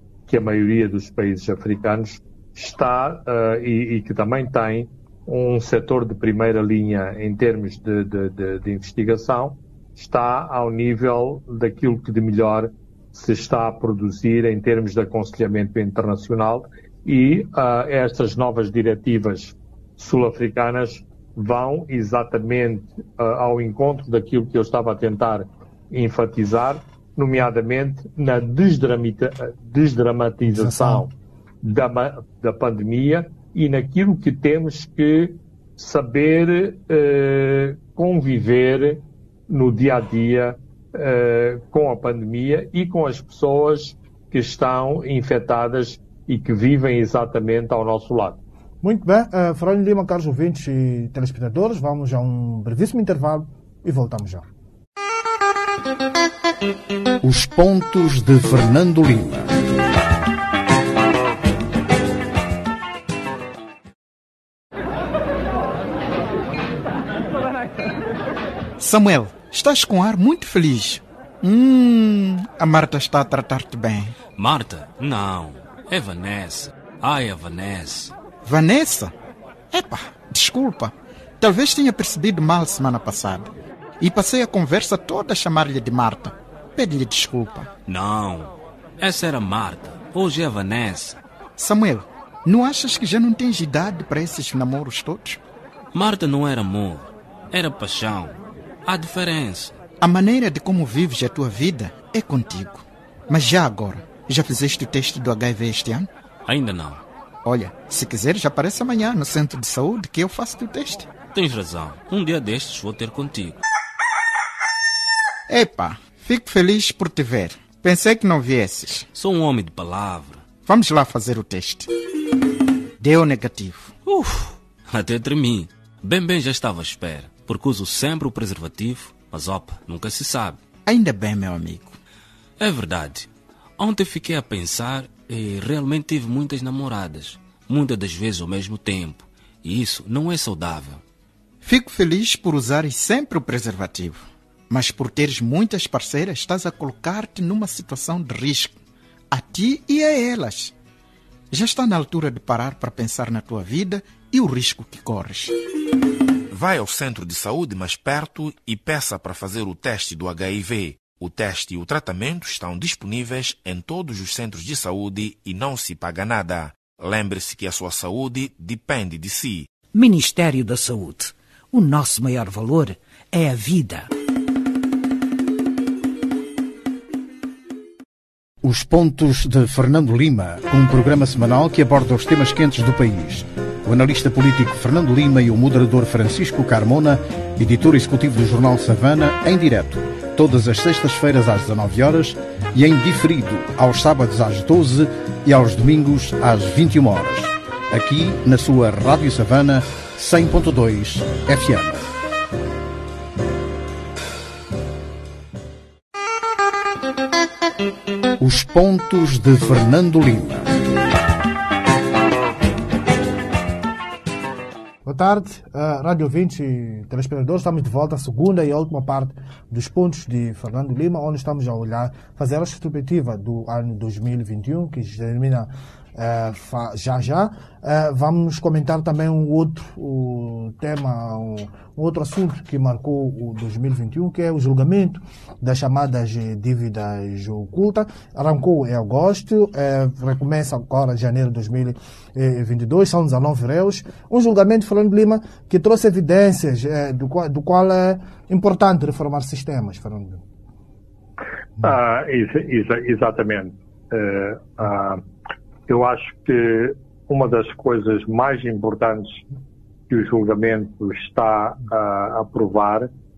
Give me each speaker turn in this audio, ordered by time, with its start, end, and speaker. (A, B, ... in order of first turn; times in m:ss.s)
0:00.3-0:31.1 A
0:30.4-0:31.1 B
0:31.6-0:48.4 A
0:48.8-0:54.4 B
0:57.2-0:59.5 C
1:08.8-1:14.2 D
1:14.4-1:18.1 E
1:18.4-1:19.1 D
1:19.7-1:27.7 D
1:27.9-1:31.2 E
1:31.6-1:35.4 D
1:35.9-1:39.8 E
1:40.0-1:46.1 D
1:46.4-1:47.0 E
1:47.4-1:51.1 D
1:51.3-1:53.6 E
1:55.5-1:59.1 D
1:59.1-2:00.4 E
2:00.6-2:01.9 D
2:03.0-2:04.0 D
2:04.1-2:10.6 E
2:10.8-2:12.0 D
2:12.6-2:21.0 E
2:21.6-2:28.8 D
2:29.3-2:30.7 D
2:31.5-2:35.5 D
2:36.5-2:49.7 F
2:49.9-2:54.1 G
2:58.6-3:22.1 C
3:28.4-3:30.7 C
3:35.0-4:10.4 B
4:11.8-4:15.2 A
4:15.9-4:19.4 A
4:20.1-4:23.1 A